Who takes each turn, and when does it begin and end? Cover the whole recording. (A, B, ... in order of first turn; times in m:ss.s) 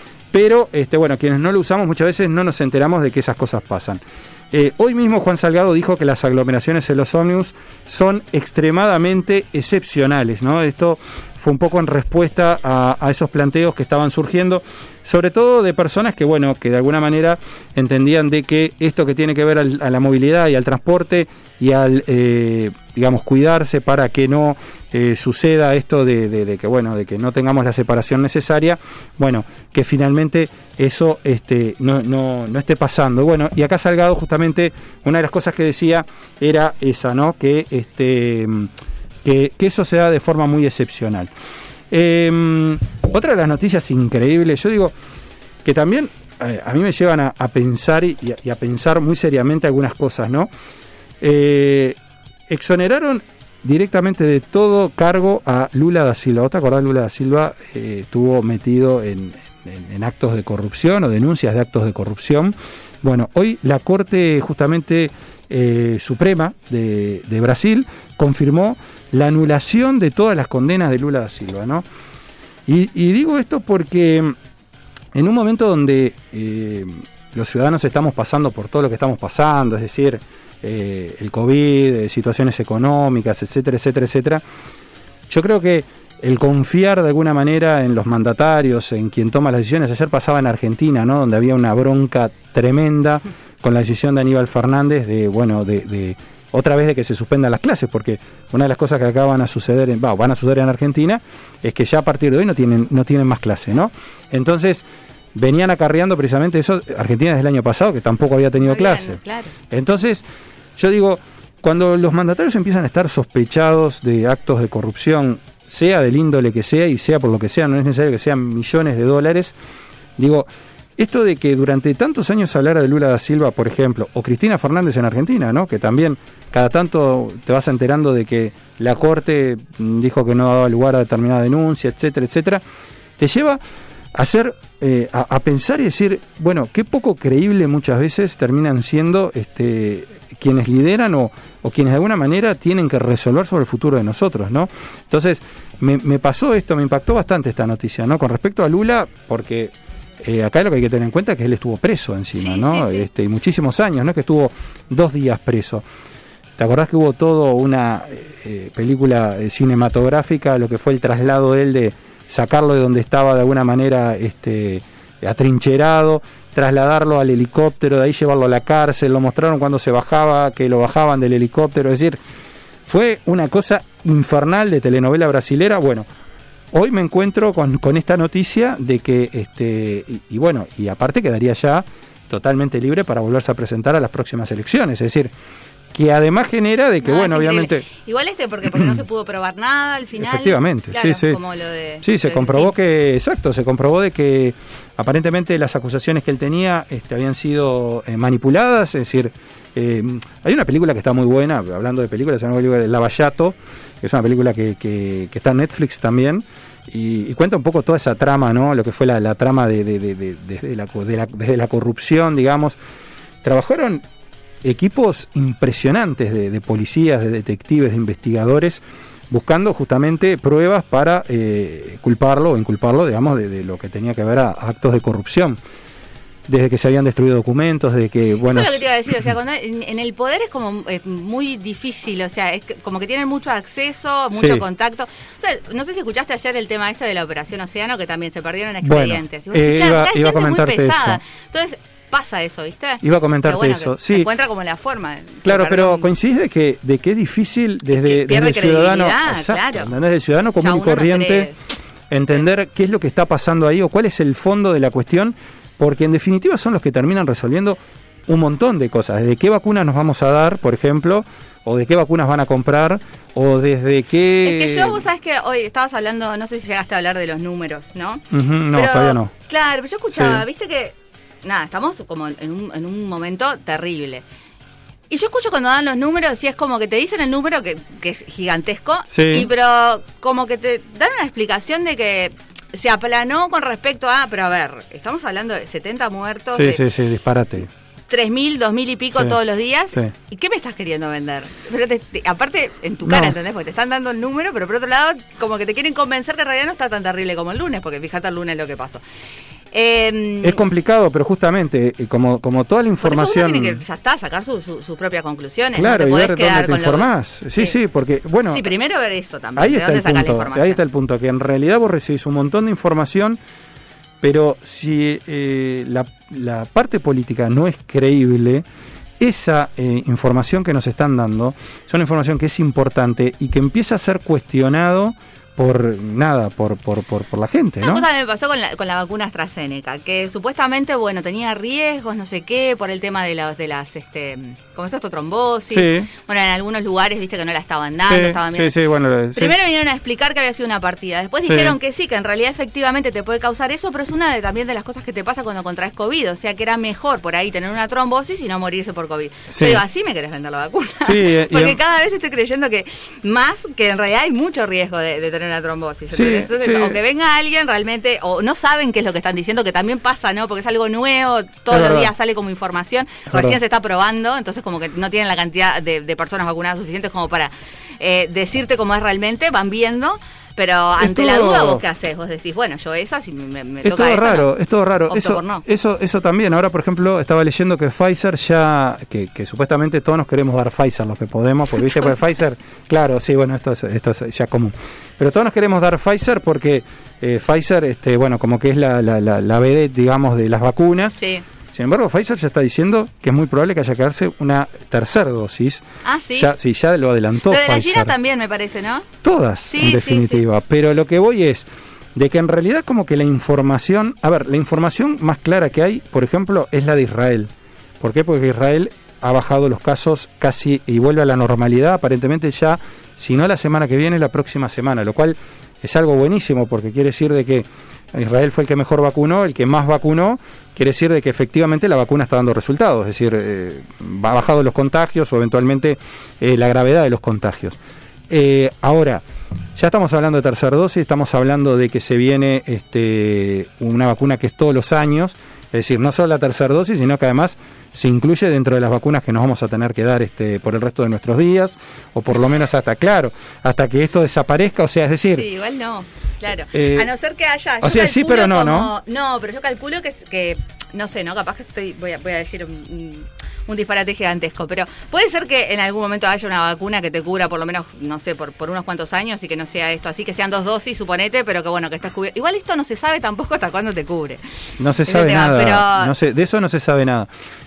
0:00.3-0:38.7 A
0:39.2-0:41.3 A
0:41.9-0:44.9 A
0:45.6-0:50.5 A
0:51.2-0:52.0 A
0:52.5-1:11.8 A
1:12.7-1:14.4 A
1:15.1-1:24.4 A
1:25.3-1:50.2 A
1:48.6-1:49.5 B
1:50.8-1:59.5 A
2:00.2-2:12.6 A
2:13.2-2:13.6 A
2:14.1-2:35.8 A
2:32.4-2:33.1 B
2:36.6-2:52.2 A
2:52.9-2:56.1 A
2:56.7-3:05.3 A
3:05.9-3:07.8 A
3:07.0-3:12.7 B
3:08.6-3:09.0 A
3:10.2-3:11.4 A
3:12.0-3:32.8 A
3:33.4-3:34.0 A
3:34.6-3:45.6 A
3:46.5-3:48.8 A
3:48.5-4:06.1 B
3:54.3-3:54.6 A
3:58.8-4:01.2 A
4:03.0-4:04.3 A
4:05.4-4:11.5 A
4:07.9-4:09.9 B
4:10.6-4:11.6 B
4:12.1-4:25.0 A
4:24.4-4:28.2 B
4:28.3-4:29.3 A
4:28.7-4:34.2 B
4:30.2-4:30.4 A
4:35.1-4:46.8 B
4:39.1-4:39.5 A
4:46.5-4:47.7 A
4:48.1-4:59.0 B
4:53.0-4:53.4 A
4:59.7-5:00.6 B
5:00.4-5:03.8 A
5:03.0-5:07.7 B
5:05.7-5:08.6 A
5:08.5-5:10.8 B
5:09.6-5:13.4 A
5:14.2-5:18.6 A
5:19.2-5:28.0 A
5:27.8-5:38.7 B
5:35.7-5:36.1 A
5:38.1-5:39.5 A
5:39.3-6:14.5 B
5:41.4-5:41.7 A
5:49.5-5:49.8 A
5:51.0-5:51.8 A
5:56.1-5:57.0 A
6:01.7-6:02.1 A
6:03.3-6:03.6 A
6:11.0-6:11.8 A
6:13.8-6:31.2 A
6:15.1-6:15.6 B
6:31.2-6:31.4 B
6:31.7-6:38.1 A
6:36.0-6:36.5 B
6:37.5-6:39.0 B
6:39.2-7:07.8 A
6:39.7-6:40.4 B
7:08.3-7:09.2 A
7:09.8-7:25.4 A
7:25.3-7:44.4 B
7:26.7-7:27.1 A
7:27.8-7:28.9 A
7:44.8-7:47.3 A
7:45.0-7:46.1 B